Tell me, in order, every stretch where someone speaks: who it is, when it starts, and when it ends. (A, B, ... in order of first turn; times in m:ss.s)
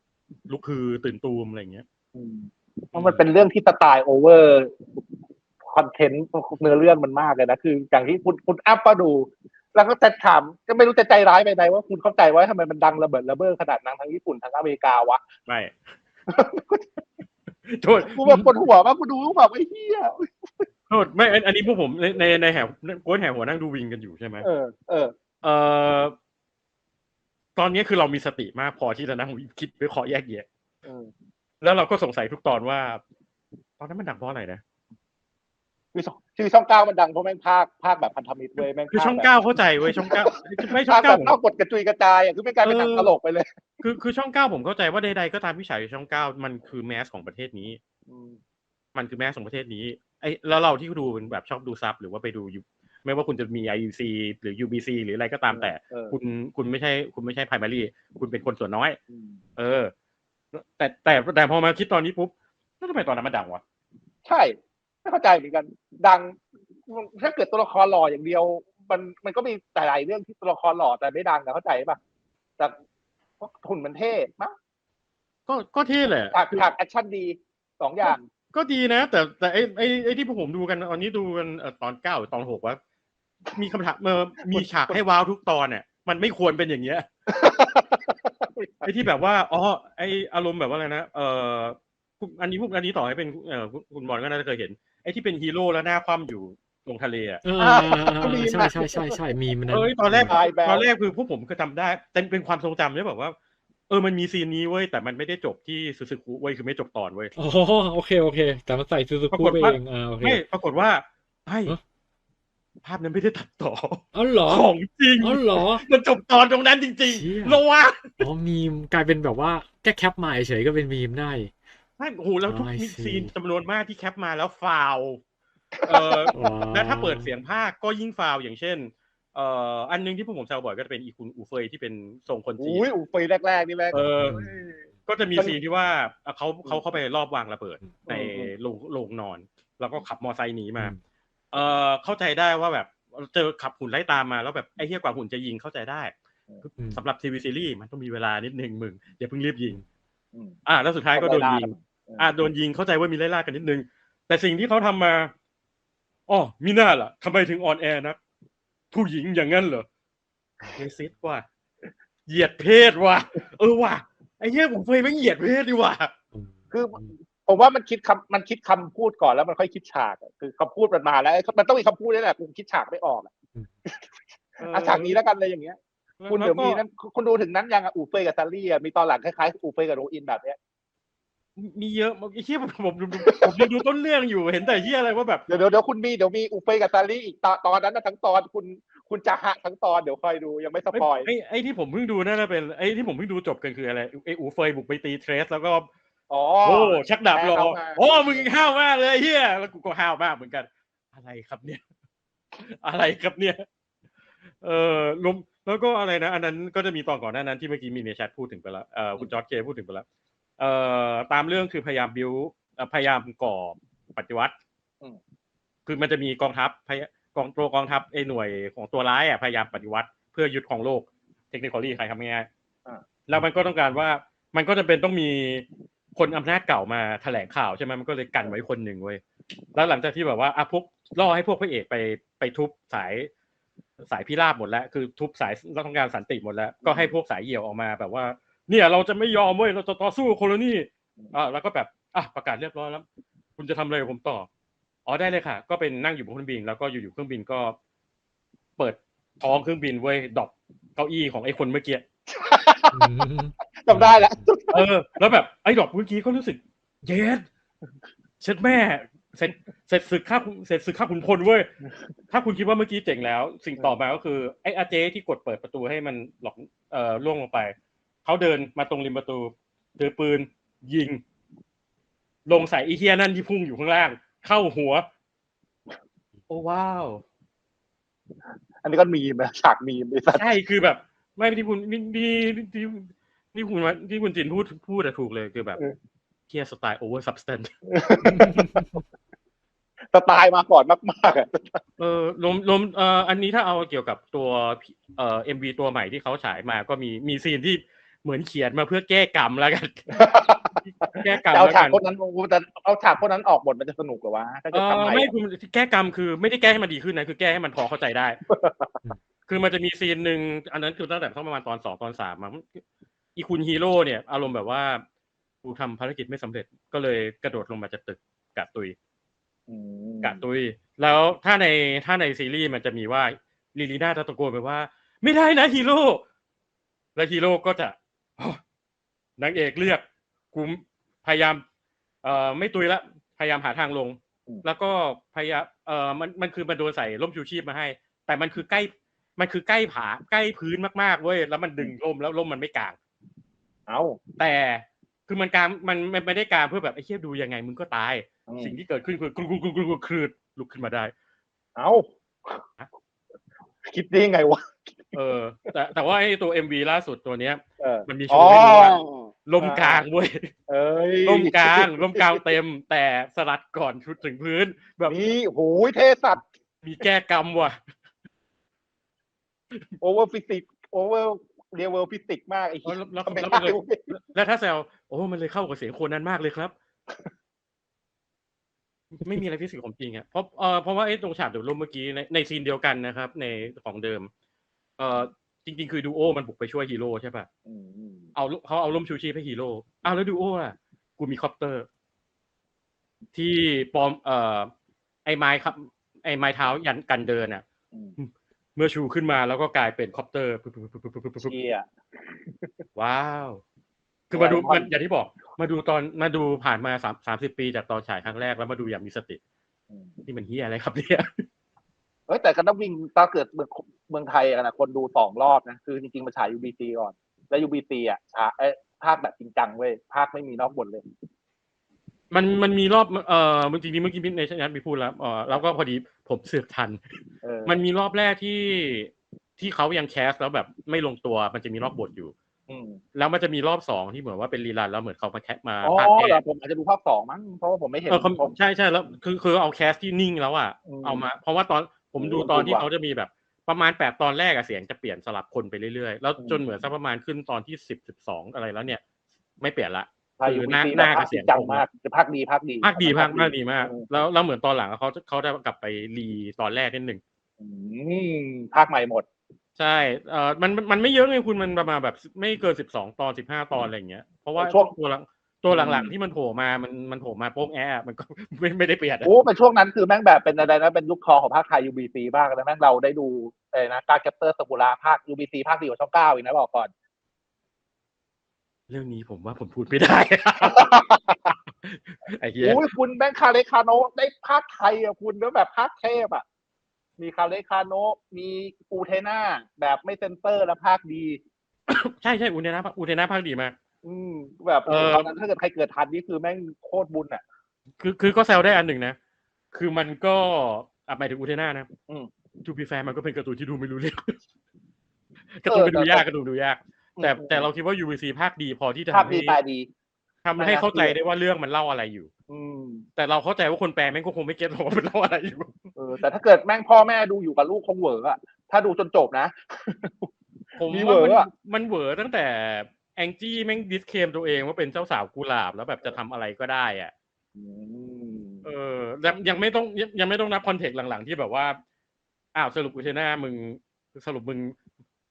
0:00.5-0:01.8 A
0:02.1-0:05.0 B
0:02.9-0:03.2 A
0:05.6-0:15.2 B
0:15.5-0:15.8 A
0:16.3-0:16.8 B
0:17.6-0:18.5 A
0:18.0-0:20.6 B
0:20.9-0:24.5 A
0:24.4-0:25.1 B
0:25.4-0:26.1 A
0:27.6-0:30.4 A
0:30.8-0:31.1 B
0:31.6-0:33.0 A
0:33.8-0:34.6 A
0:35.9-0:39.3 B
0:38.9-0:41.4 A
0:39.8-0:43.5 B
0:42.6-0:43.1 A
0:43.8-0:47.8 A
0:48.1-0:48.4 B
0:48.9-0:59.0 A
0:55.5-0:56.1 B
0:59.1-0:59.4 B
0:59.6-0:59.9 A
1:00.5-1:03.6 A
1:04.2-1:12.0 B
1:13.4-1:14.6 B
1:15.5-1:16.6 A
1:16.3-1:18.2 B
1:18.5-1:22.8 A
1:23.5-1:27.0 A
1:27.3-1:28.9 B
1:28.8-1:37.4 A
1:37.4-1:40.3 C
1:37.6-1:39.2 B
1:39.7-1:43.4 A
1:40.2-1:40.9 B
1:43.9-1:47.3 A
1:47.4-1:50.4 C
1:49.3-1:51.8 A
1:52.8-1:58.2 A
1:54.1-1:54.6 C
1:55.2-1:55.8 C
1:57.1-1:57.6 C
1:58.2-2:01.5 C
2:02.0-2:05.2 A
2:02.5-2:03.3 C
2:05.8-2:06.3 B
2:05.8-2:12.8 A
2:06.3-2:07.3 C
2:12.6-2:14.8 B
2:13.9-2:21.0 A
2:14.2-2:14.5 C
2:18.1-2:18.5 B
2:21.5-2:29.8 A
2:30.6-2:35.3 A
2:31.1-2:32.3 B
2:36.3-2:38.2 A
2:38.9-2:39.8 A
2:40.8-2:41.4 A
2:42.3-2:46.1 A
2:46.3-2:47.1 C
2:46.7-2:53.3 B
2:54.6-2:55.2 A
2:54.7-2:55.8 B
2:56.2-2:56.8 A
2:56.3-3:00.6 B
3:01.6-3:05.4 A
3:03.2-3:03.7 B
3:05.5-3:11.3 B
3:10.9-3:15.9 A
3:16.3-3:18.5 B
3:16.6-3:21.8 A
3:22.6-3:23.6 A
3:24.6-3:30.0 A
3:30.6-3:34.5 A
3:35.8-3:42.5 A
3:43.3-3:45.6 A
3:46.2-3:49.2 A
3:49.7-3:53.3 A
3:54.0-4:03.0 A
3:56.8-3:57.1 B
4:03.6-4:04.5 A
4:05.0-4:07.8 A
4:08.8-4:12.0 A
4:12.3-4:13.1 B
4:12.9-4:14.4 C
4:13.8-4:14.9 B
4:14.7-4:17.5 A
4:18.4-4:21.7 A
4:22.3-4:27.7 A
4:28.2-4:31.2 A
4:32.4-4:35.0 A
4:36.5-4:37.2 A
4:38.8-4:40.4 B
4:40.3-4:45.8 A
4:46.5-4:47.7 A
4:47.9-4:48.9 B
4:50.1-4:51.8 B
4:52.0-5:00.2 A
5:00.1-5:05.3 B
5:00.8-5:02.0 A
5:04.7-5:08.4 A
5:08.5-5:09.0 B
5:09.5-5:12.8 A
5:13.4-5:15.0 A
5:15.6-5:18.9 A
5:19.7-5:20.4 B
5:20.2-5:26.2 A
5:27.2-5:28.6 A
5:29.4-5:31.6 A
5:32.2-5:43.0 A
5:43.9-5:44.2 B
5:44.4-5:51.1 A
5:48.5-5:48.8 B
5:51.8-5:52.6 B
5:53.8-5:55.1 B
5:55.1-6:00.5 A
5:57.8-6:00.0 B
6:00.7-6:02.4 B
6:01.2-6:05.2 A
6:05.1-6:06.4 B
6:06.8-6:07.8 A
6:10.0-6:14.1 B
6:12.8-6:16.7 A
6:19.2-6:24.3 A
6:25.0-6:27.5 A
6:27.6-6:28.3 B
6:28.3-6:31.9 A
6:33.3-6:34.7 A
6:35.2-6:37.6 A
6:38.2-6:41.6 A
6:41.4-6:42.7 B
6:43.0-6:43.6 A
6:44.3-6:49.4 A
6:44.3-6:44.9 B
6:49.9-6:50.2 B
6:50.2-6:51.4 A
6:52.3-7:01.0 B
7:02.3-7:07.0 A
7:07.4-7:07.8 B
7:07.6-7:12.3 A
7:12.7-7:13.0 B
7:13.1-7:16.4 A
7:15.8-7:18.5 B
7:18.1-7:29.0 A
7:20.9-7:21.2 B
7:22.2-7:22.8 B
7:29.6-7:31.8 A
7:30.4-7:34.0 B
7:32.8-7:37.2 A
7:37.6-7:39.2 B
7:39.8-7:49.3 A
7:44.6-7:44.9 B
7:45.7-7:46.1 B
7:49.2-7:56.9 B
7:58.9-8:00.9 A
8:00.6-8:01.5 B
8:01.7-8:02.9 A
8:02.6-8:06.4 B
8:07.2-8:11.4 B
8:11.9-8:13.8 A
8:14.0-8:17.4 B
8:14.8-8:15.3 A
8:18.0-8:19.2 A
8:19.7-8:21.9 A
8:22.6-8:24.4 A
8:25.5-8:29.6 A
8:25.7-8:26.2 B
8:27.2-8:27.7 B
8:29.1-8:29.9 B
8:30.4-8:32.3 A
8:30.6-8:31.1 B
8:32.5-8:33.0 B
8:33.2-8:35.7 A
8:36.0-8:40.3 B
8:40.8-8:47.1 A
8:40.9-8:41.5 B
8:47.6-8:48.6 B
8:48.6-8:51.8 A
8:52.5-8:54.8 A